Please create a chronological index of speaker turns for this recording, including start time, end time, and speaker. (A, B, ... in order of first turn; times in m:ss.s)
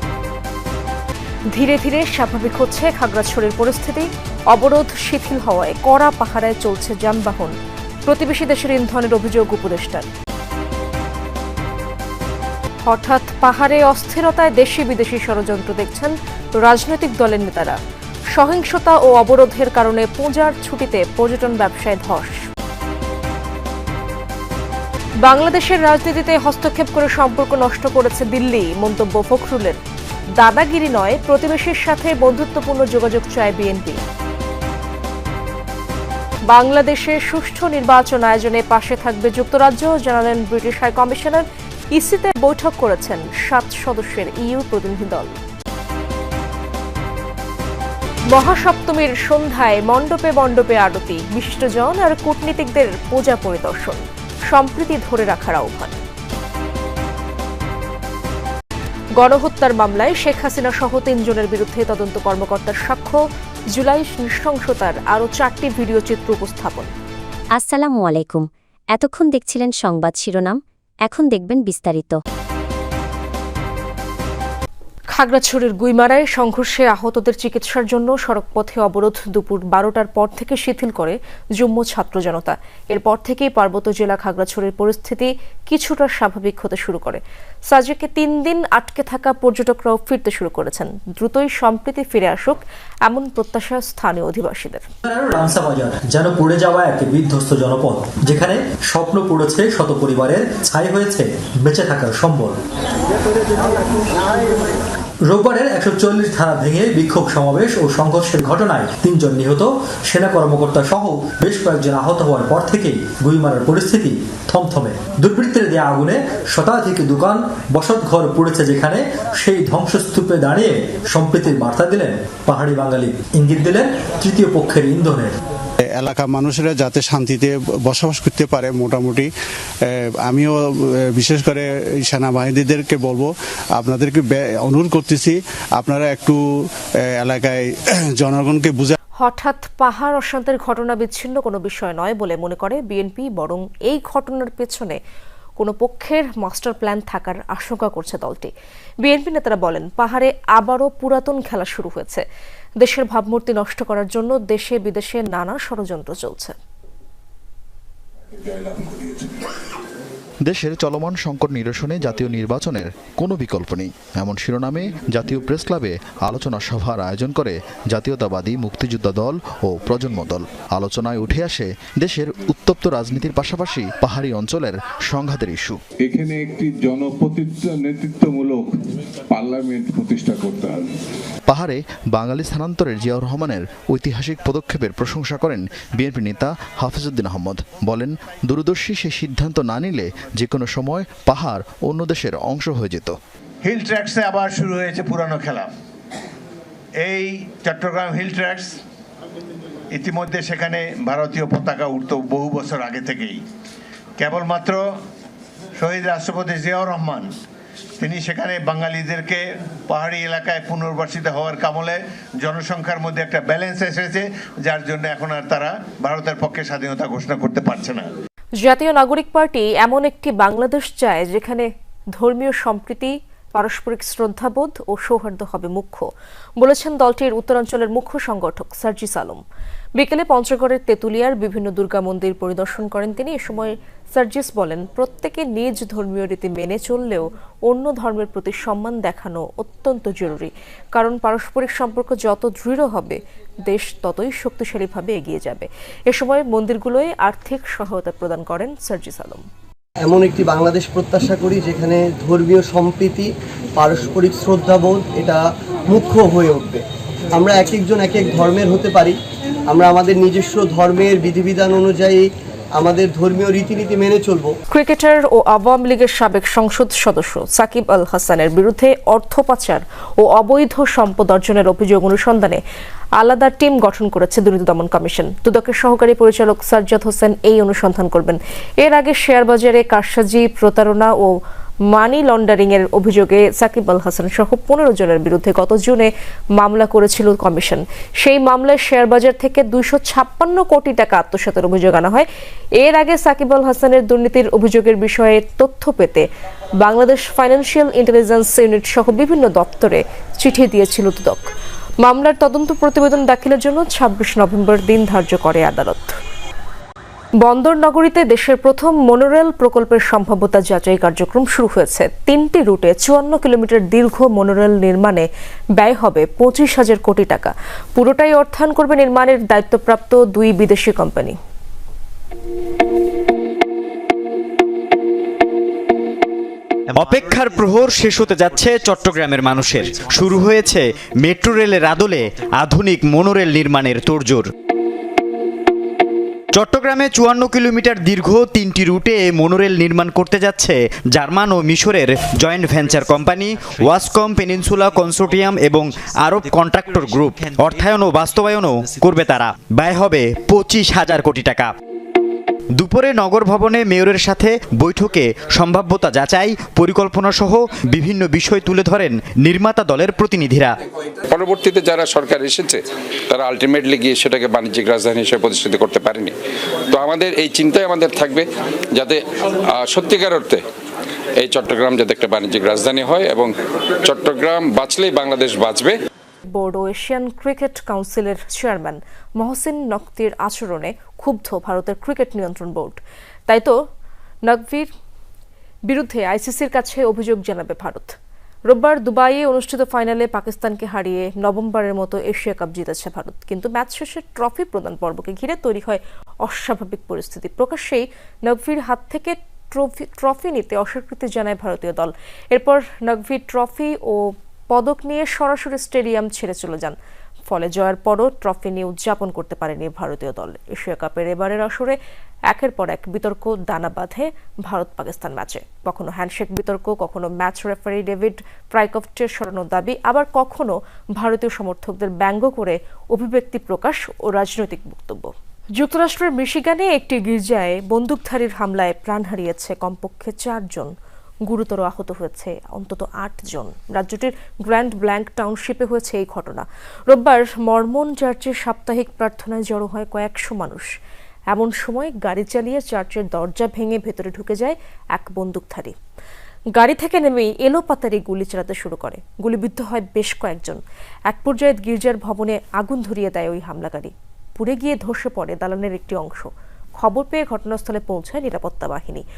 0:01.5-0:07.5 A
0:08.0-0:10.1 A
0:12.8-0:17.8 A
0:18.3-0:22.4 A
0:25.2-0:29.8 A
0:30.4-0:34.0 A
0:36.5-0:45.4 A
0:48.3-0:56.0 A
0:59.2-1:03.2 A
1:03.7-1:06.9 A
1:07.6-1:12.2 B
1:15.1-1:34.8 A
1:35.0-1:42.6 C
1:45.2-2:05.4 C
2:05.8-2:09.3 D
2:09.9-2:10.6 D
2:11.2-2:16.4 D
2:17.2-2:19.0 D
2:19.2-2:25.0 A
2:25.6-2:28.5 A
2:29.0-2:32.2 A
2:32.8-2:36.6 A
2:38.4-2:39.3 E
2:40.5-2:55.8 F
2:56.0-2:58.8 E
2:59.3-3:00.9 E
3:01.5-3:13.2 F
3:13.6-3:15.7 G
3:17.0-3:18.8 G
3:19.9-3:23.4 G
3:24.2-3:24.9 G
3:25.8-3:27.3 G
3:28.0-3:38.1 G
3:38.6-3:46.1 A
3:46.6-3:49.4 A
3:50.0-4:09.4 A
4:10.0-4:16.8 H
4:17.3-4:24.5 H
4:24.7-4:32.6 A
4:33.2-4:41.3 A
4:41.9-4:52.3 A
4:52.8-4:56.2 A
4:56.8-5:01.5 A
5:02.0-5:06.2 A
5:07.4-5:21.4 A
5:26.9-5:34.5 I
5:36.5-5:51.7 I
5:52.8-6:00.7 I
6:01.3-6:06.3 J
6:06.9-6:10.6 J
6:11.4-6:13.5 J
6:14.0-6:15.9 J
6:16.5-6:23.8 A
6:24.5-6:24.9 A
6:25.9-6:28.1 A
6:28.7-6:47.0 A
6:47.5-6:52.0 A
6:52.5-7:10.9 A
7:11.5-7:20.9 A
7:21.5-7:25.9 A
7:26.8-7:39.2 A